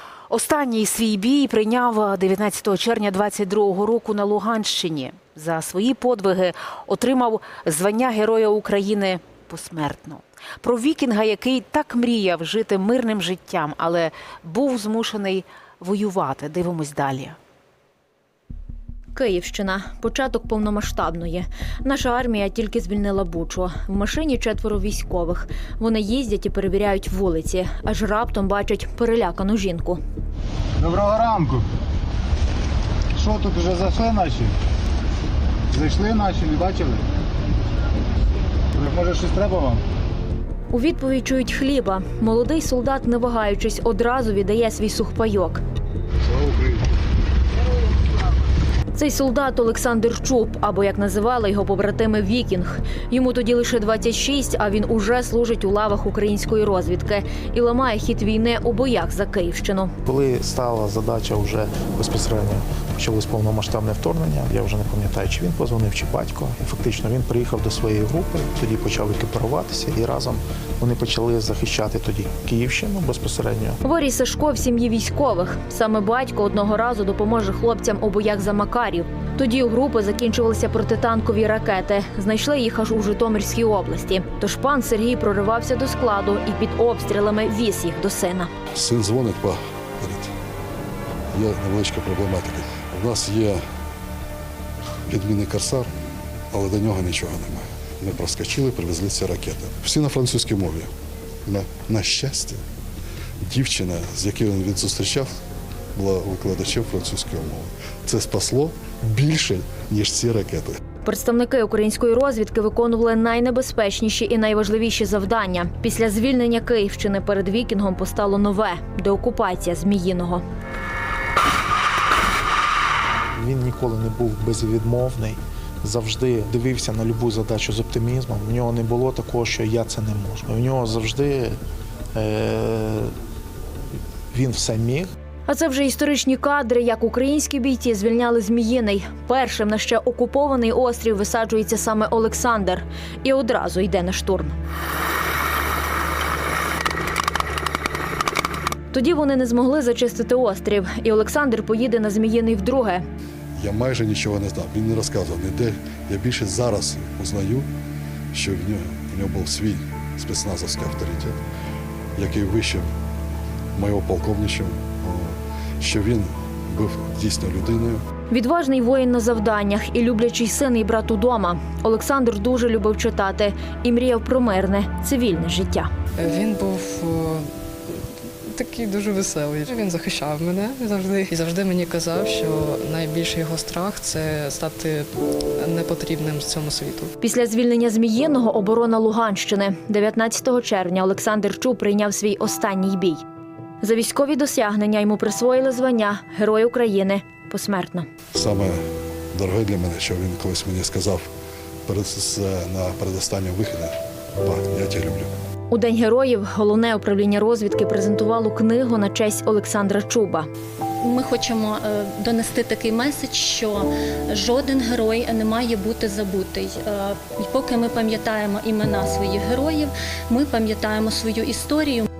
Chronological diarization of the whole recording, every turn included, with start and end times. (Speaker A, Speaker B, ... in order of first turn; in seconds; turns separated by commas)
Speaker A: 0.3-17.4, Speaker B: 19.1-30.0, Speaker C: 30.8-31.7, Speaker C: 33.2-34.5, Speaker C: 35.7-37.0, Speaker C: 38.8-39.9, Speaker B: 40.7-45.6, Speaker C: 46.3-46.8, Speaker B: 49.0-59.9, Speaker D: 60.0-73.8, Speaker B: 73.8-88.5, Speaker E: 88.7-90.3, Speaker E: 91.3-93.6, Speaker E: 95.1-95.9, Speaker E: 96.5-100.9, Speaker E: 101.5-102.6, Speaker E: 103.4-105.4, Speaker E: 106.0-110.8, Speaker B: 111.0-120.4, Speaker D: 123.4-131.6, Speaker D: 132.2-133.1, Speaker D: 134.3-135.1, Speaker B: 135.5-144.5, Speaker B: 148.9-153.1, Speaker E: 153.6-157.7, Speaker E: 158.3-161.4, Speaker E: 162.2-162.9, Speaker E: 163.8-168.0, Speaker B: 168.3-175.9, Speaker F: 176.2-177.5, Speaker F: 178.5-187.1, Speaker B: 187.2-193.2, Speaker B: 193.8-198.1, Speaker E: 198.3-198.8, Speaker E: 199.3-201.3, Speaker E: 201.9-205.3, Speaker B: 205.7-210.5, Speaker G: 211.0-222.1